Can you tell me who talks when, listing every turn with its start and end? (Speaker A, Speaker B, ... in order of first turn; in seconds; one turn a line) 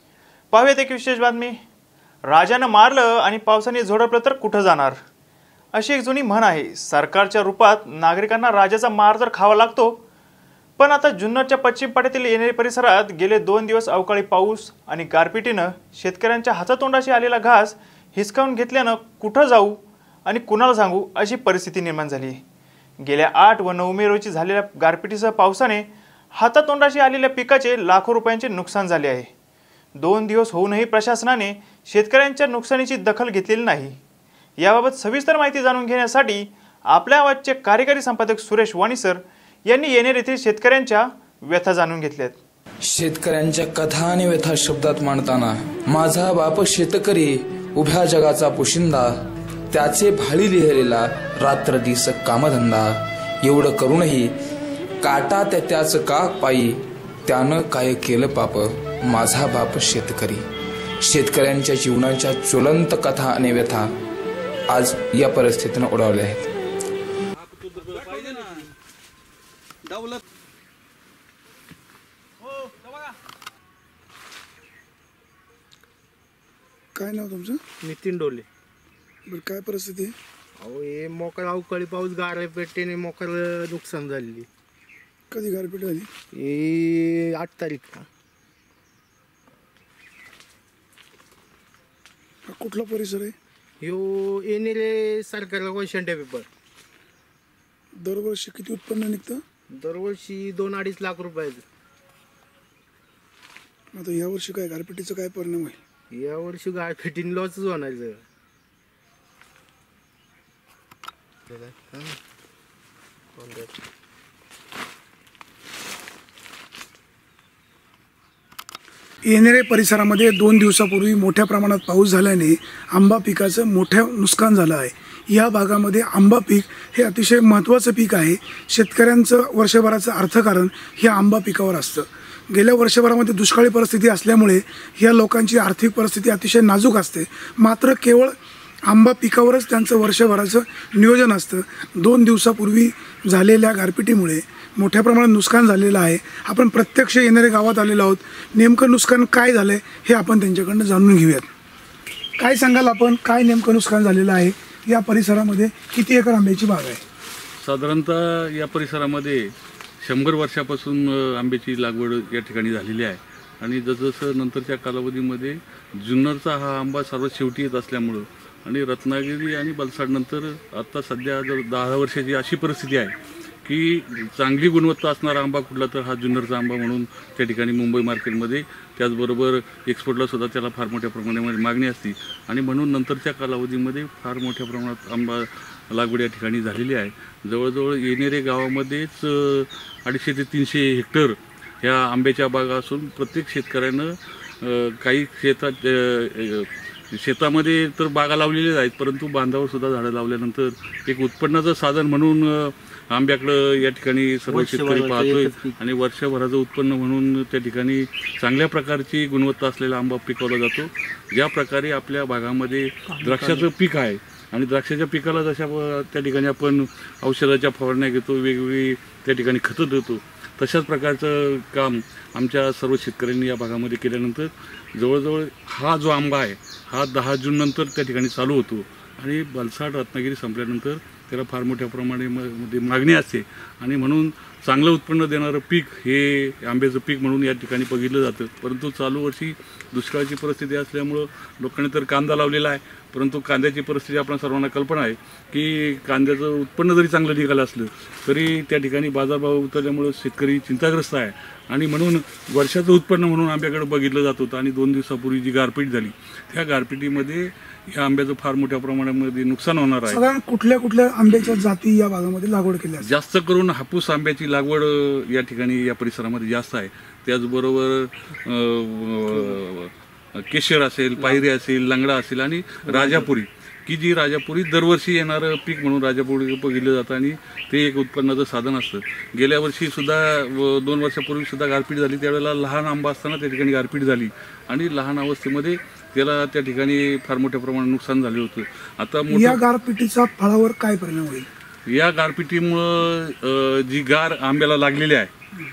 Speaker A: 0.5-1.6
Speaker A: 2.2-5.0
Speaker A: 5.7-10.0
Speaker A: 10.8-22.4
Speaker A: 23.0-29.3
Speaker A: 29.9-34.0
Speaker A: 34.6-42.4
Speaker B: 42.8-49.1
Speaker B: 49.7-54.3
Speaker B: 55.0-60.4
Speaker B: 61.0-63.9
Speaker B: 64.7-66.4
Speaker C: 76.9-77.6
Speaker D: 77.8-78.5
Speaker C: 79.2-80.1
Speaker D: 80.6-84.5
Speaker C: 85.3-86.1
Speaker D: 86.3-88.0
Speaker C: 92.5-93.3
Speaker D: 93.8-96.5
Speaker C: 98.0-99.4
Speaker D: 99.7-101.6
Speaker C: 103.9-105.8
Speaker D: 106.1-108.2
Speaker D: 111.5-112.2
Speaker D: 113.3-113.7
Speaker C: 119.2-151.5
Speaker C: 152.4-157.0
Speaker E: 157.6-260.2
Speaker D: 204.5-205.5
Speaker C: 260.1-263.1
Speaker E: 263.0-289.6
Speaker C: 289.3-291.5
Speaker E: 291.9-295.3